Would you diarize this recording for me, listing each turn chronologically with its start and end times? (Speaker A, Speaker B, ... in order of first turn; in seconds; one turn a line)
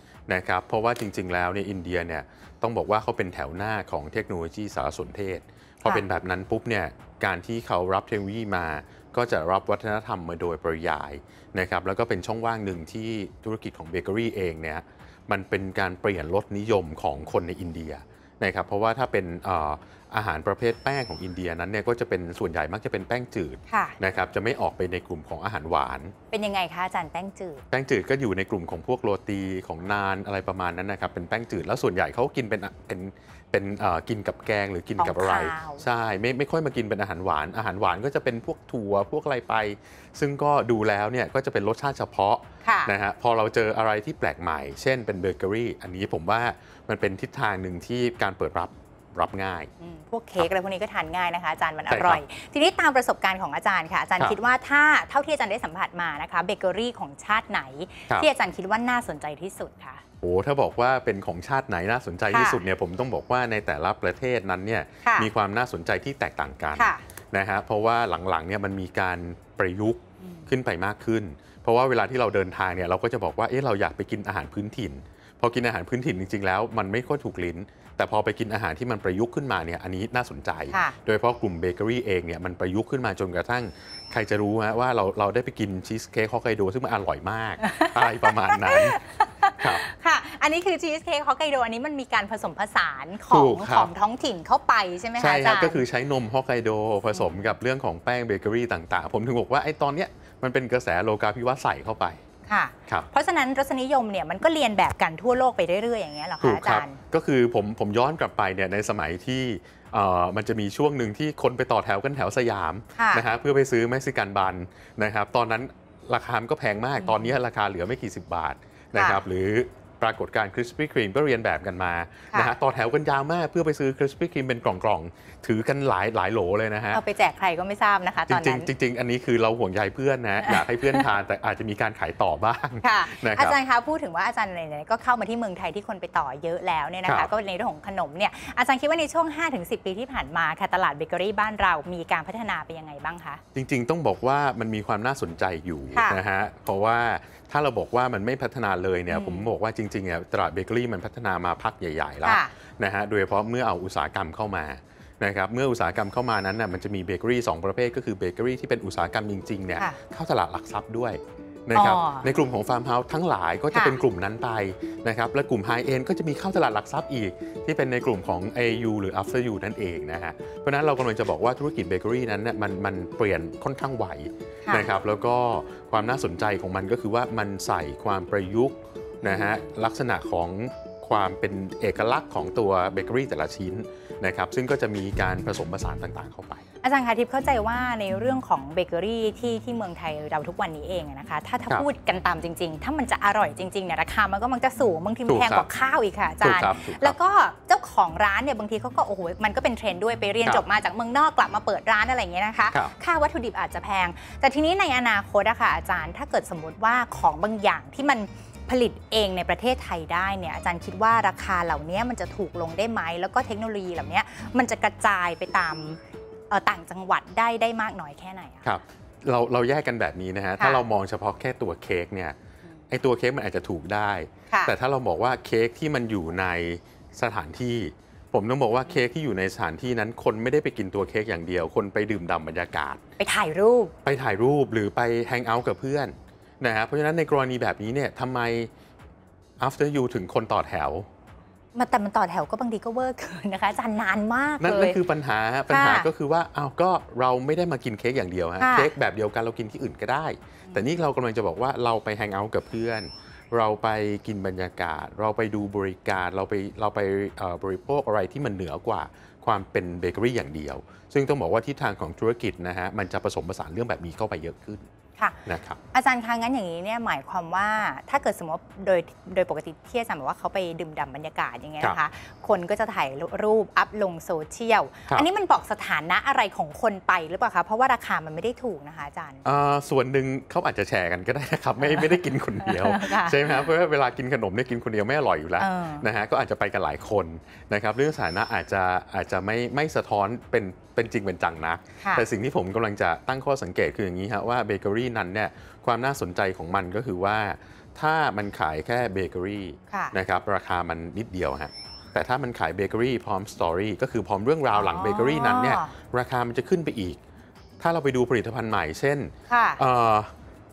Speaker A: 0.3-26.1
Speaker B: 23.7-24.0
Speaker B: 26.3-27.6
Speaker A: 27.7-49.7
Speaker B: 35.0-35.8
Speaker B: 42.6-42.9
Speaker B: 49.8-60.0
Speaker A: 51.9-52.2
Speaker A: 60.2-89.0
Speaker B: 62.3-62.6
Speaker B: 65.0-65.3
Speaker B: 66.8-67.0
Speaker B: 70.2-70.5
Speaker B: 80.7-81.0
Speaker B: 87.6-95.8
Speaker A: 93.3-93.9
Speaker A: 95.2-102.2
Speaker B: 102.5-107.0
Speaker A: 106.4-127.0
Speaker B: 113.0-113.3
Speaker B: 117.0-117.3
Speaker B: 118.9-119.2
Speaker B: 126.9-128.7
Speaker A: 128.3-133.6
Speaker B: 130.4-131.1
Speaker B: 132.8-143.4
Speaker A: 137.1-137.3
Speaker A: 143.6-186.6
Speaker B: 145.9-146.2
Speaker B: 149.1-149.5
Speaker B: 152.2-152.5
Speaker B: 161.7-162.3
Speaker B: 163.7-164.0
Speaker B: 179.2-179.6
Speaker B: 186.8-216.0
Speaker A: 195.3-195.7
Speaker A: 196.4-197.2
Speaker B: 216.5-218.7
Speaker A: 218.7-222.3
Speaker B: 220.6-220.8
Speaker A: 222.9-233.0
Speaker B: 233.2-233.9
Speaker A: 234.0-238.7
Speaker A: 239.6-241.1
Speaker B: 241.7-245.0
Speaker A: 244.6-264.9
Speaker B: 245.7-246.1
Speaker B: 248.6-248.9
Speaker A: 265.5-265.8
Speaker B: 265.9-279.4
Speaker A: 279.4-307.2
Speaker B: 281.9-283.6
Speaker B: 285.6-286.0
Speaker B: 304.7-305.9
Speaker A: 307.8-310.3
Speaker B: 309.5-309.8